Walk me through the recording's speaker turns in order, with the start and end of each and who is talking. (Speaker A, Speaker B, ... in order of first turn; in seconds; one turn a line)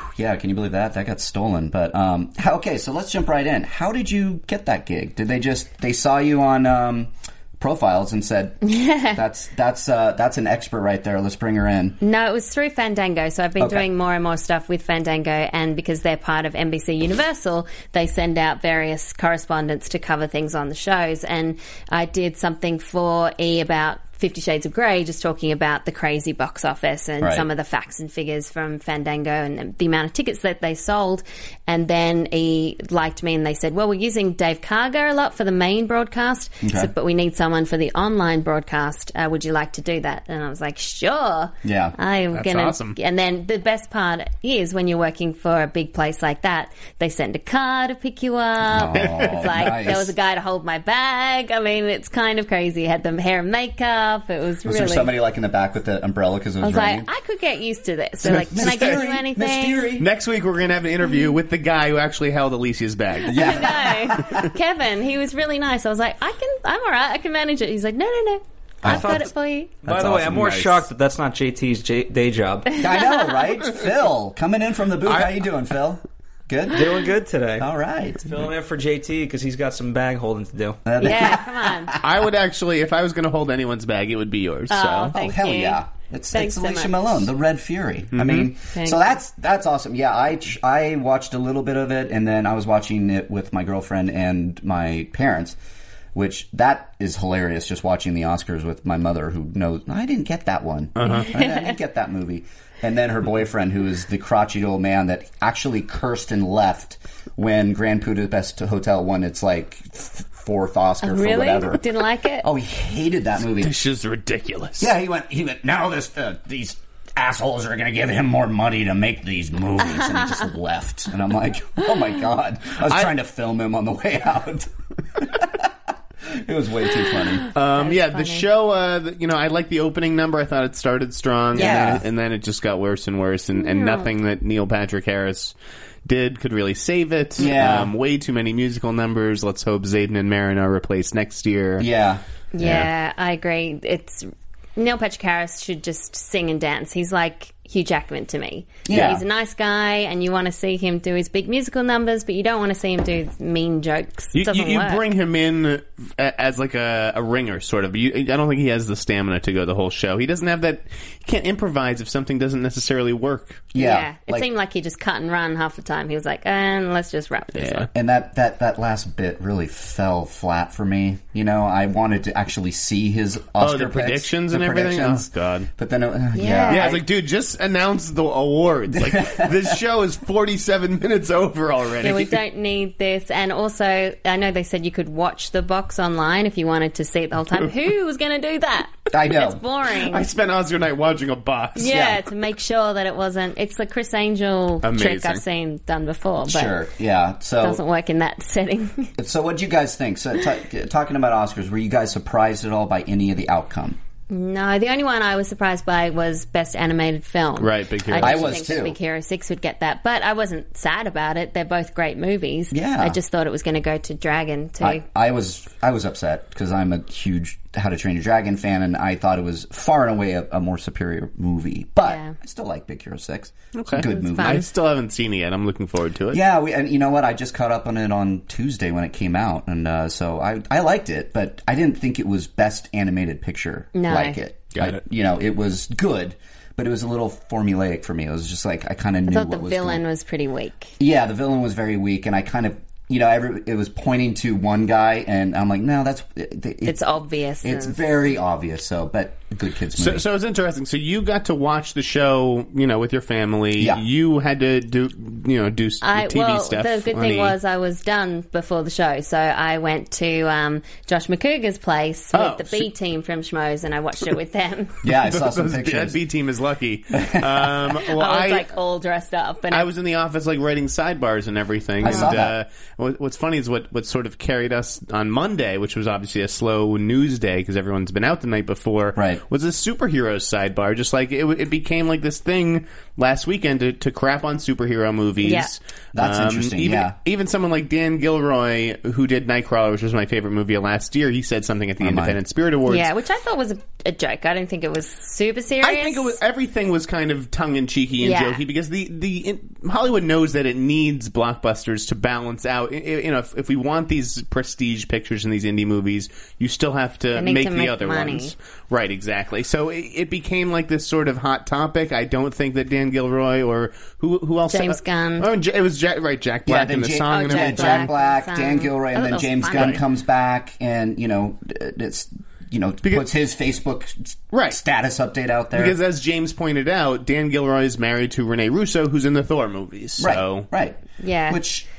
Speaker A: 0.1-12.0
Speaker B: 8.6-9.2
Speaker B: 12.0-55.1
Speaker A: 13.6-13.9
Speaker A: 27.2-27.5
Speaker A: 36.6-36.9
Speaker A: 41.6-42.0
Speaker C: 42.3-43.0
Speaker A: 48.6-50.1
Speaker C: 49.0-49.5
Speaker A: 54.6-57.1
Speaker B: 56.6-59.9
Speaker A: 58.2-60.1
Speaker C: 58.2-59.0
Speaker C: 60.0-63.7
Speaker A: 63.3-64.5
Speaker B: 63.3-69.8
Speaker A: 68.8-69.2
Speaker D: 68.8-69.3
Speaker D: 69.8-72.8
Speaker A: 69.8-70.8
Speaker C: 70.3-70.8
Speaker A: 72.8-77.0
Speaker B: 73.0-73.3
Speaker D: 75.1-75.3
Speaker D: 76.7-77.7
Speaker A: 77.6-78.5
Speaker D: 78.3-80.8
Speaker A: 80.8-82.1
Speaker B: 81.0-82.0
Speaker C: 82.0-85.2
Speaker B: 84.7-85.8
Speaker A: 85.2-95.6
Speaker B: 86.3-87.2
Speaker C: 88.1-88.5
Speaker B: 88.7-89.0
Speaker A: 96.1-111.8
Speaker C: 101.0-101.3
Speaker B: 111.0-112.5
Speaker A: 112.4-113.7
Speaker C: 113.6-114.9
Speaker A: 114.8-125.7
Speaker A: 126.2-127.5
Speaker B: 127.5-128.4
Speaker C: 127.5-141.9
Speaker A: 131.6-132.1
Speaker B: 131.6-132.0
Speaker B: 133.6-134.1
Speaker A: 137.4-137.9
Speaker A: 141.8-142.2
Speaker B: 142.5-155.0
Speaker C: 142.6-142.9
Speaker A: 148.9-149.2
Speaker C: 154.3-163.7
Speaker A: 163.7-164.5
Speaker B: 163.8-167.9
Speaker C: 167.5-167.9
Speaker A: 167.9-177.1
Speaker C: 173.6-175.7
Speaker B: 176.3-177.0
Speaker C: 176.7-182.4
Speaker A: 178.9-179.8
Speaker B: 182.0-190.3
Speaker A: 189.1-189.6
Speaker C: 190.0-192.1
Speaker B: 191.8-196.8
Speaker A: 191.9-192.2
Speaker C: 194.8-195.4
Speaker A: 196.5-197.8
Speaker B: 197.6-199.1
Speaker A: 199.2-204.0
Speaker B: 204.3-215.0
Speaker C: 207.6-208.8
Speaker A: 208.2-209.0
Speaker A: 212.7-213.2
Speaker A: 214.8-224.7
Speaker B: 222.1-222.3
Speaker C: 223.8-226.4
Speaker B: 224.0-224.7
Speaker A: 226.3-240.0
Speaker B: 233.9-234.4
Speaker C: 234.7-235.0
Speaker B: 239.3-240.9
Speaker A: 241.0-247.0
Speaker B: 246.8-248.0
Speaker A: 247.6-250.2
Speaker C: 250.0-257.6
Speaker A: 253.8-254.0
Speaker B: 256.0-265.0
Speaker C: 262.3-262.9
Speaker A: 265.0-266.2
Speaker C: 265.1-268.7
Speaker A: 267.1-267.8
Speaker B: 268.1-269.9
Speaker C: 269.7-293.1
Speaker A: 272.0-272.6
Speaker B: 272.0-272.3
Speaker A: 279.2-279.4
Speaker B: 285.4-285.7
Speaker A: 286.1-287.1
Speaker A: 292.0-292.4
Speaker B: 292.9-296.4
Speaker C: 295.8-318.1
Speaker B: 298.2-298.6
Speaker B: 307.3-308.5
Speaker B: 314.7-315.5
Speaker A: 316.7-326.0
Speaker B: 317.3-320.0
Speaker C: 319.7-320.0
Speaker C: 324.5-324.8
Speaker C: 325.8-330.7
Speaker A: 330.2-331.9
Speaker B: 331.2-331.6